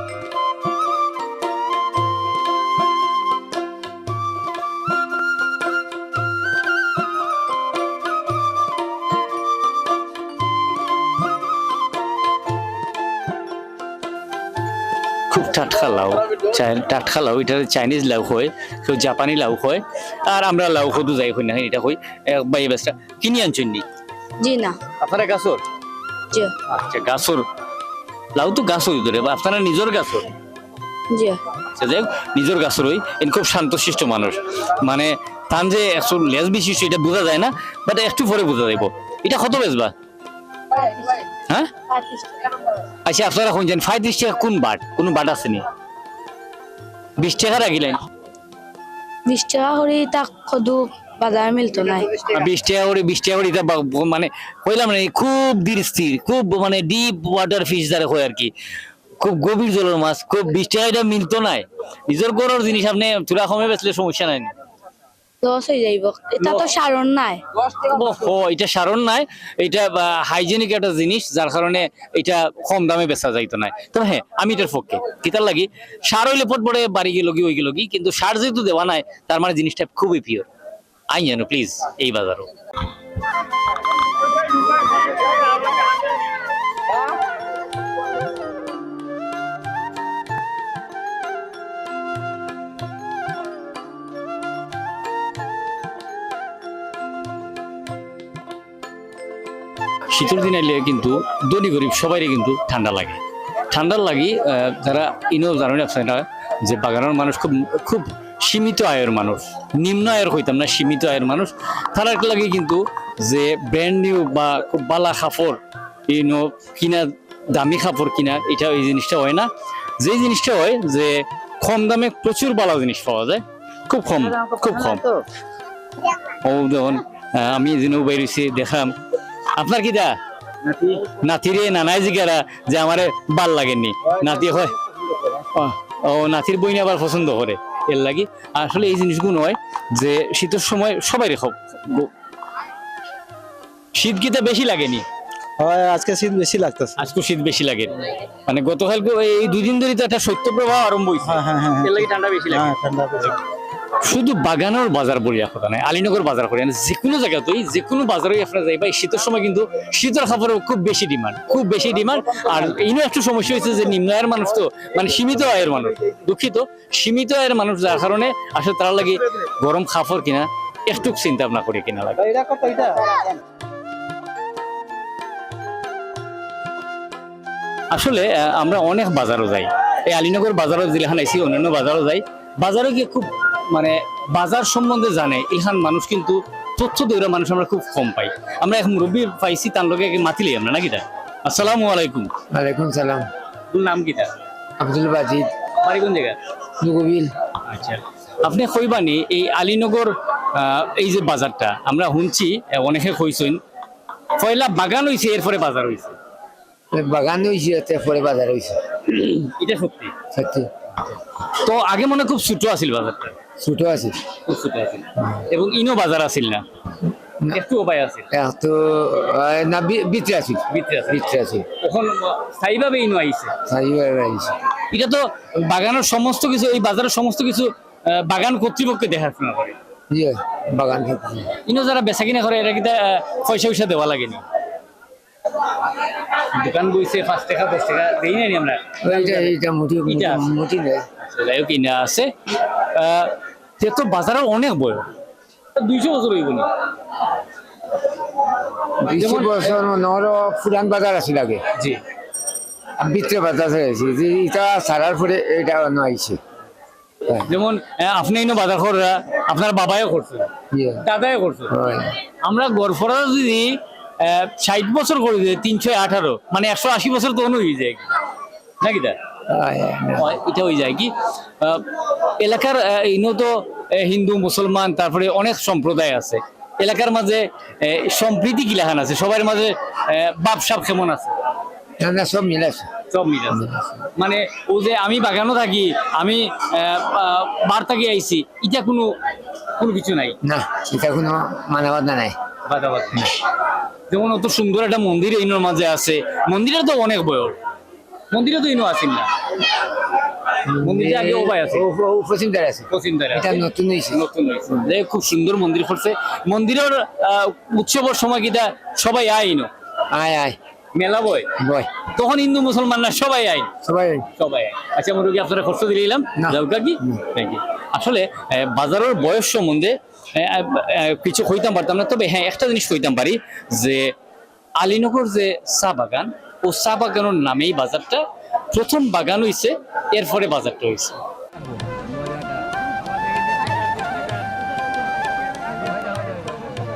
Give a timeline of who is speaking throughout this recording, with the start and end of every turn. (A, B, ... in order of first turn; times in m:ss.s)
0:15.3-0:23.8 A
0:24.4-0:24.8 B
0:25.0-0:25.6 A
0:26.7-0:27.4 A
0:28.3-0:30.3 A
0:31.1-0:31.4 B
0:31.7-0:39.9 A
0:41.9-0:42.5 B
0:43.0-0:45.6 A
0:47.2-0:48.0 A
0:49.2-0:52.2 B
0:52.3-0:58.5 A
0:59.2-1:04.5 A
1:05.4-1:07.4 B
1:07.6-1:20.5 A
1:21.1-1:22.5 A
1:40.1-2:05.0 A
2:06.4-2:09.0 A
2:09.6-2:10.1 A
2:11.0-2:14.7 A
2:15.5-2:22.1 A
2:23.9-2:25.0 A
2:25.6-2:27.0 C
2:27.0-2:32.8 A
2:31.3-2:31.9 C
2:32.5-2:33.3 C
2:34.0-2:52.4 A
2:52.4-2:53.1 C
2:57.9-3:12.3 A
3:12.5-3:13.3 D
3:13.7-3:14.3 A
3:14.8-3:15.5 D
3:15.8-3:16.4 A
3:16.8-3:17.3 D
3:17.6-3:23.6 A
3:24.4-3:26.2 A
3:26.9-3:28.8 D
3:29.1-3:30.2 A
3:30.3-3:30.7 D
3:31.4-3:33.4 A
3:33.6-3:34.2 D
3:34.4-3:36.6 A
3:37.5-3:38.3 A
3:38.3-3:41.7 D
3:40.7-3:43.5 A
3:43.6-3:44.6 D
3:44.9-3:49.8 A
3:50.1-3:51.5 D
3:51.6-3:54.4 A
3:56.4-3:59.5 A
3:59.0-4:01.0 D
4:00.0-4:00.5 A
4:01.2-4:05.1 A
4:05.8-4:06.7 A
4:09.0-4:11.6 D
4:09.1-4:09.8 A
4:13.0-4:16.4 D
4:17.4-4:21.8 A
4:20.7-4:21.0 D
4:21.7-4:22.1 D
4:22.4-4:28.1 A
4:28.8-4:29.2 A
4:29.5-4:30.4 D
4:30.2-4:41.4 A
4:42.0-4:42.9 D
4:43.1-4:49.2 A
4:43.5-4:44.1 D
4:49.8-4:50.4 A
4:50.4-4:52.4 D
4:52.7-4:53.4 A
4:54.1-4:57.6 A
4:58.3-4:59.6 A
5:00.6-5:04.2 D
5:00.7-5:01.8 A
5:02.9-5:09.7 A
5:10.1-5:10.6 D
5:10.9-5:13.7 A
5:11.6-5:11.9 D
5:13.8-5:14.3 D
5:14.4-5:24.1 A
5:16.4-5:17.2 D
5:24.8-5:31.2 A